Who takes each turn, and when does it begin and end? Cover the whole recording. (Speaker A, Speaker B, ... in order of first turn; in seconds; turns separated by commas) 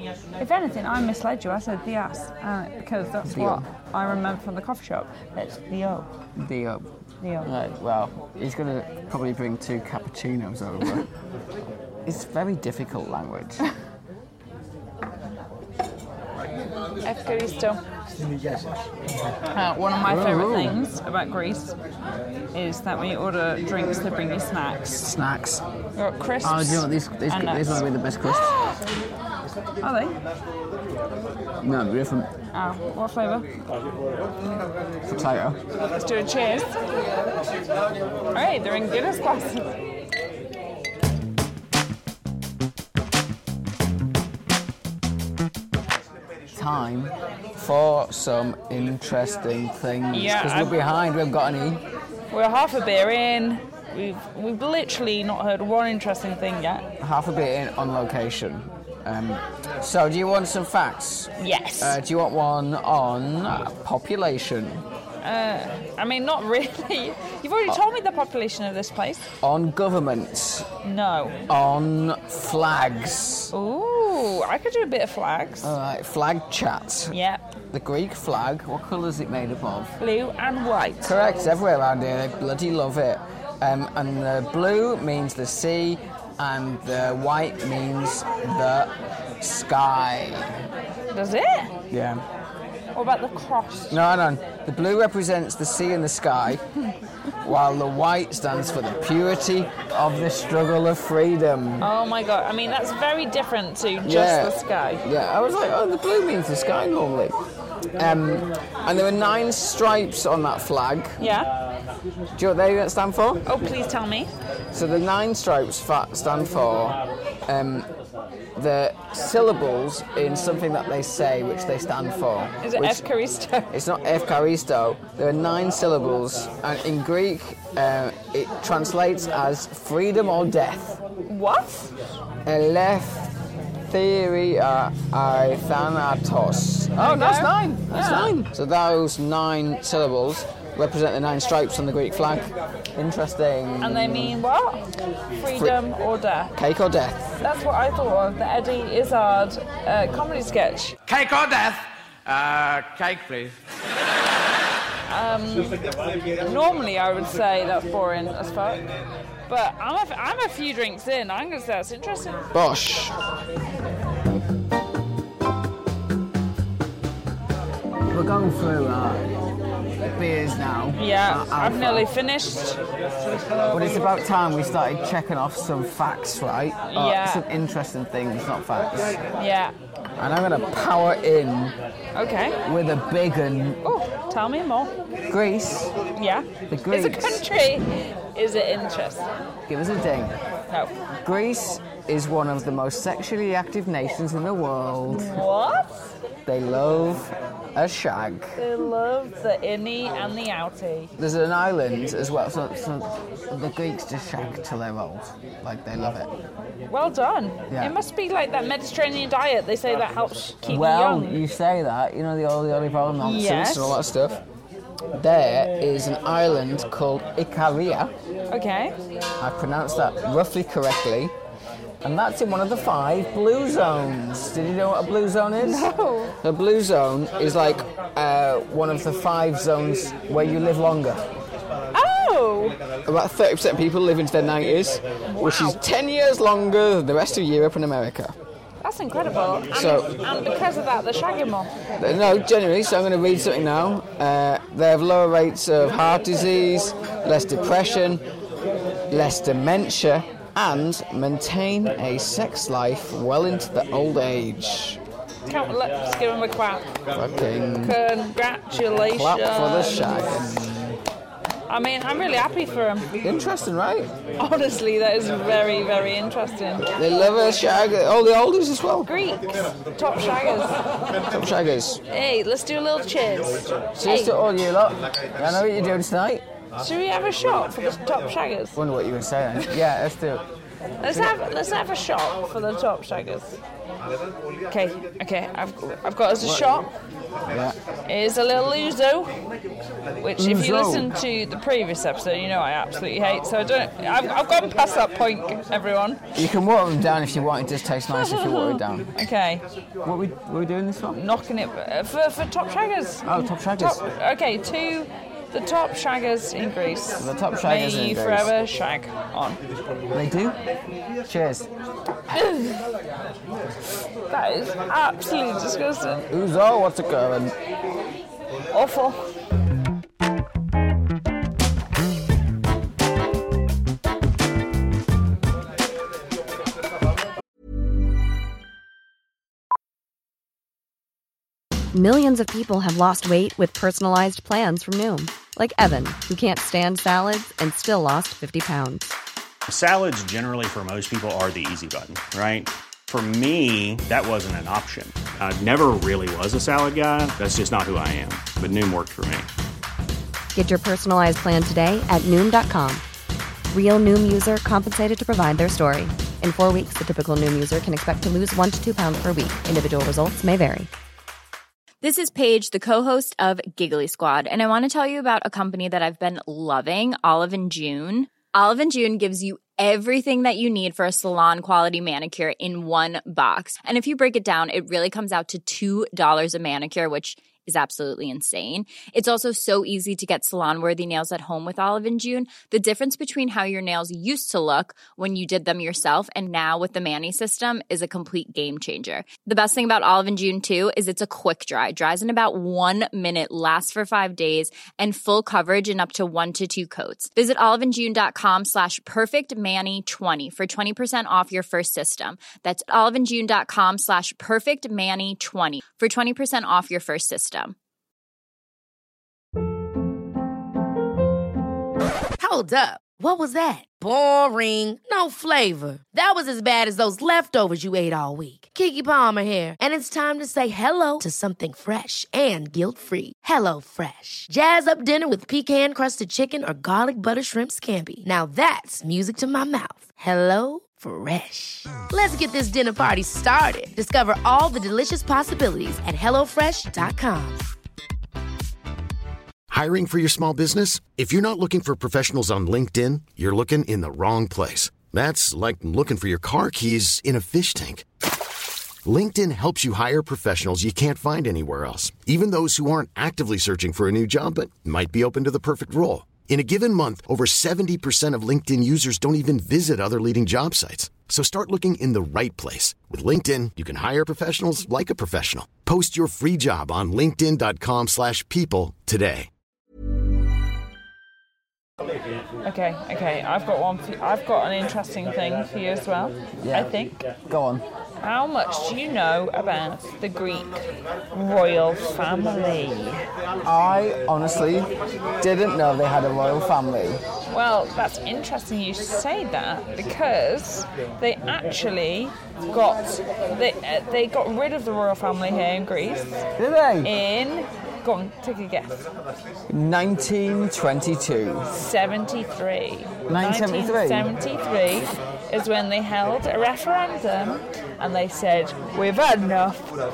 Speaker A: 0.4-6.1, Speaker B: 3.2-3.7, Speaker B: 6.3-6.9, Speaker A: 7.2-7.5, Speaker B: 7.4-11.1, Speaker B: 12.0-13.7, Speaker A: 17.0-17.8, Speaker A: 19.5-21.8, Speaker B: 19.9-20.8, Speaker A: 22.5-25.0, Speaker B: 25.0-25.6, Speaker A: 25.9-28.8, Speaker B: 26.4-28.6, Speaker A: 29.8-30.2, Speaker B: 31.6-32.3, Speaker A: 32.5-33.6, Speaker B: 35.0-35.6, Speaker A: 35.9-36.8, Speaker A: 38.3-39.8, Speaker B: 46.5-51.8, Speaker A: 50.1-50.8, Speaker A: 52.3-56.9, Speaker B: 57.0-64.8, Speaker A: 61.4-62.0, Speaker A: 65.2-69.3, Speaker B: 69.4-70.7, Speaker A: 70.8-71.4, Speaker B: 71.5-73.5, Speaker A: 73.5-75.7, Speaker B: 75.6-77.2, Speaker A: 77.1-77.4, Speaker B: 77.7-79.9, Speaker A: 80.0-81.1, Speaker B: 81.0-90.5, Speaker A: 91.1-91.7, Speaker B: 91.9-92.2, Speaker A: 92.9-94.0, Speaker B: 93.9-96.6, Speaker B: 97.4-101.9, Speaker A: 101.8-105.0, Speaker B: 104.0-107.4, Speaker B: 108.0-111.3, Speaker A: 111.2-111.5, Speaker B: 112.3-113.4, Speaker A: 113.5-114.3, Speaker B: 114.7-117.9, Speaker B: 118.5-123.0, Speaker A: 122.6-123.7, Speaker B: 123.7-131.0, Speaker A: 131.3-131.9, Speaker B: 132.4-144.4, Speaker A: 136.9-138.3, Speaker A: 143.8-146.5, Speaker B: 145.5-145.8, Speaker B: 146.5-147.4, Speaker A: 147.4-151.0, Speaker C: 151.1-153.5, Speaker A: 155.1-155.8, Speaker A: 156.4-158.8, Speaker A: 159.5-162.4, Speaker B: 162.5-163.1, Speaker B: 168.1-169.3, Speaker B: 170.0-172.1, Speaker A: 170.9-172.8, Speaker B: 173.7-179.2, Speaker A: 176.9-177.4, Speaker A: 179.3-179.7, Speaker B: 180.2-181.8, Speaker A: 182.1-182.6, Speaker B: 182.6-183.8, Speaker A: 183.8-184.9, Speaker B: 185.3-185.9, Speaker A: 186.1-189.3, Speaker B: 186.7-187.4, Speaker B: 189.7-190.4, Speaker B: 191.2-195.4, Speaker A: 195.1-196.1, Speaker B: 196.4-198.6, Speaker A: 198.6-201.1, Speaker B: 201.2-206.3, Speaker A: 206.9-211.4, Speaker B: 207.7-207.9, Speaker B: 210.7-214.4, Speaker A: 213.2-214.0, Speaker B: 215.1-218.1, Speaker A: 218.5-218.9, Speaker B: 219.4-221.3, Speaker B: 222.0-225.9, Speaker A: 225.6-226.3, Speaker B: 226.4-231.3, Speaker A: 231.9-232.8, Speaker B: 233.1-238.3, Speaker A: 235.2-235.8, Speaker A: 238.8-241.7, Speaker B: 239.7-240.1, Speaker B: 242.0-248.2, Speaker B: 249.1-255.0, Speaker A: 255.5-256.9, Speaker B: 257.1-258.0, Speaker A: 257.8-260.4, Speaker B: 259.0-261.0, Speaker A: 261.7-263.1, Speaker B: 263.2-264.1, Speaker A: 264.4-266.9, Speaker B: 266.8-269.1, Speaker A: 269.0-270.8, Speaker B: 271.2-272.0, Speaker A: 272.1-274.4, Speaker B: 274.0-276.4, Speaker A: 276.8-278.8, Speaker B: 278.7-280.4, Speaker A: 281.0-283.6, Speaker B: 281.0-281.4, Speaker A: 284.7-286.9, Speaker B: 286.4-286.6, Speaker B: 287.4-287.8, Speaker A: 288.1-289.3, Speaker A: 290.2-296.4, Speaker B: 290.4-291.1, Speaker B: 296.3-299.1, Speaker A: 298.1-299.6, Speaker B: 300.0-301.2, Speaker A: 301.1-309.6, Speaker B: 303.2-304.0, Speaker B: 307.2-308.5, Speaker B: 310.1-310.6, Speaker B: 311.2-311.7, Speaker A: 312.3-312.8, Speaker A: 314.3-316.3, Speaker B: 316.3-317.5, Speaker A: 318.7-319.2, Speaker D: 331.9-339.2, Speaker E: 339.7-349.5, Speaker D: 350.5-353.0, Speaker D: 353.7-360.9, Speaker F: 362.0-407.7, Speaker G: 412.4-437.6, Speaker H: 439.7-448.0, Speaker H: 449.0-469.5, Speaker A: 472.6-477.2, Speaker B: 476.6-476.9, Speaker B: 477.4-477.8, Speaker A: 478.2-483.2, Speaker B: 483.6-487.2, Speaker A: 487.5-496.4, Speaker B: 496.6-497.1, Speaker A: 497.0-499.0, Speaker B: 499.7-501.7, Speaker A: 501.7-509.9, Speaker B: 503.3-504.3